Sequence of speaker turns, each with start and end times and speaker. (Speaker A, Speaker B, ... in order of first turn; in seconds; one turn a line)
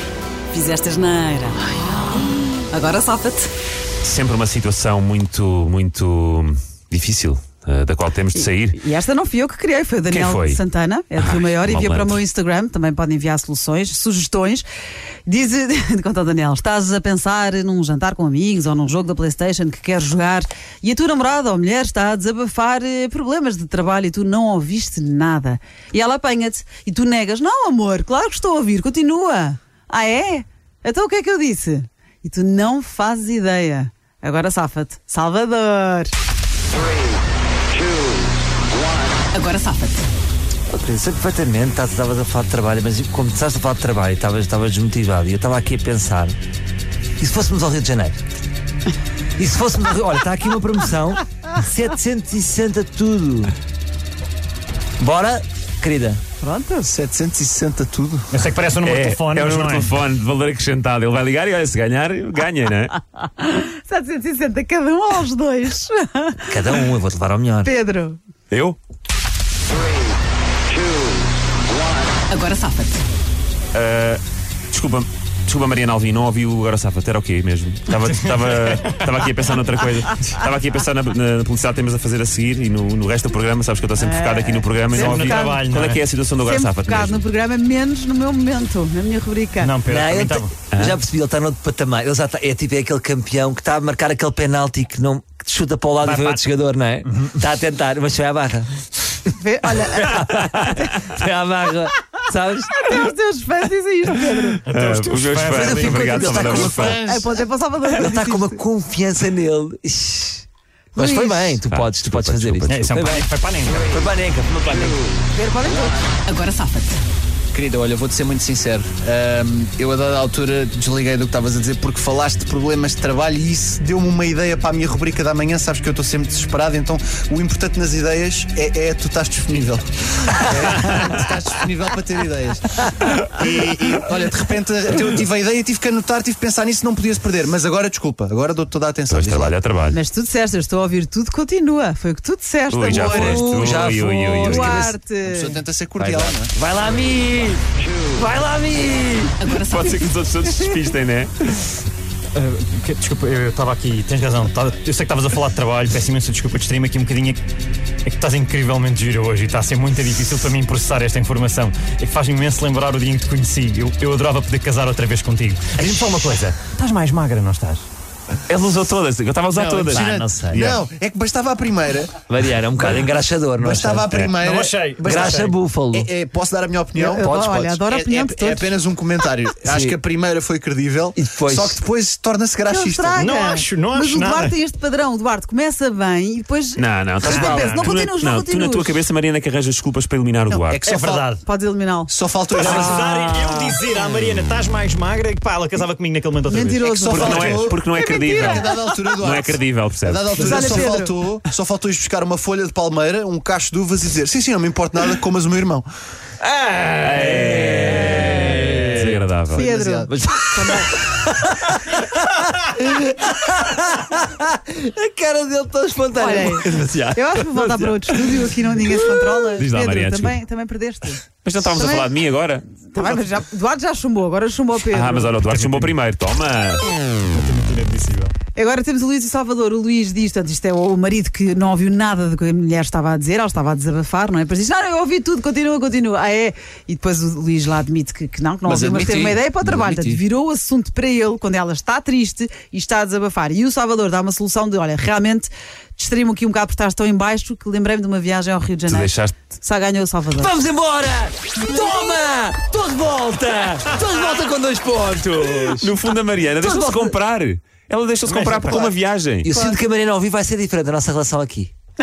Speaker A: 0.5-3.5
Speaker B: 4.0-8.8
Speaker A: 8.3-14.6
Speaker B: 10.1-10.6
Speaker B: 11.2-12.2
Speaker A: 15.2-36.1
Speaker A: 39.3-40.1
Speaker C: 40.7-46.4
Speaker C: 47.2-48.2
Speaker C: 49.4-53.5
Speaker C: 55.0-56.2
Speaker A: 56.4-56.9
Speaker D: 56.9-58.3
Speaker E: 58.3-59.9
Speaker B: 58.8-62.9
Speaker A: 63.2-66.9
Speaker C: 66.5-67.7
Speaker A: 67.6-68.2
Speaker B: 68.5-68.8
Speaker A: 72.3-73.0
Speaker B: 73.7-87.2
Speaker E: 78.3-79.0
Speaker A: 84.0-85.5
Speaker E: 84.9-86.0
Speaker A: 86.4-89.7
Speaker E: 89.6-90.5
Speaker C: 89.9-98.7
Speaker B: 90.7-91.0
Speaker E: 96.0-96.4
Speaker A: 99.3-100.2
Speaker C: 99.8-102.8
Speaker B: 100.2-100.8
Speaker A: 102.8-104.7
Speaker E: 104.7-106.9
Speaker B: 104.7-107.1
Speaker C: 105.5-107.2
Speaker A: 106.8-108.6
Speaker C: 107.9-113.2
Speaker A: 110.9-111.6
Speaker B: 111.4-112.8
Speaker E: 112.7-113.9
Speaker C: 113.8-115.0
Speaker A: 115.3-117.0
Speaker D: 117.5-139.5
Speaker B: 139.1-140.0
Speaker A: 139.9-143.7
Speaker B: 142.7-144.9
Speaker C: 142.9-145.0
Speaker A: 144.4-145.6
Speaker D: 145.2-146.5
Speaker C: 146.0-149.4
Speaker A: 149.4-150.1
Speaker B: 149.5-151.6
Speaker E: 152.3-157.4
Speaker E: 158.0-167.8
Speaker D: 165.8-166.6
Speaker B: 168.5-170.8
Speaker D: 169.5-172.2
Speaker C: 169.9-170.6
Speaker C: 172.3-174.1
Speaker D: 173.6-183.3
Speaker B: 174.1-174.4
Speaker E: 174.4-175.5
Speaker C: 175.0-176.1
Speaker A: 176.9-178.8
Speaker C: 177.2-177.6
Speaker C: 179.6-179.9
Speaker C: 181.2-181.8
Speaker A: 182.7-189.0
Speaker E: 183.2-184.5
Speaker B: 186.8-190.8
Speaker E: 187.2-187.9
Speaker D: 190.7-191.3
Speaker E: 190.8-191.4
Speaker A: 191.4-192.1
Speaker D: 192.1-193.5
Speaker E: 192.6-197.3
Speaker A: 196.5-198.8
Speaker D: 196.9-197.8
Speaker B: 197.1-200.4
Speaker D: 198.4-205.9
Speaker E: 200.4-200.8
Speaker A: 200.4-201.1
Speaker C: 206.4-209.2
Speaker B: 207.0-209.7
Speaker D: 208.8-210.1
Speaker A: 209.5-210.9
Speaker C: 210.1-219.4
Speaker A: 216.2-222.1
Speaker B: 219.6-220.4
Speaker B: 221.4-222.9
Speaker A: 222.8-225.3
Speaker B: 224.7-227.0
Speaker E: 225.4-225.9
Speaker E: 227.3-228.3
Speaker A: 228.5-250.6
Speaker C: 238.7-240.2
Speaker B: 248.9-249.3
Speaker C: 250.4-255.9
Speaker B: 255.6-259.5
Speaker C: 256.6-257.1
Speaker E: 258.3-258.9
Speaker C: 259.4-261.7
Speaker D: 259.5-259.8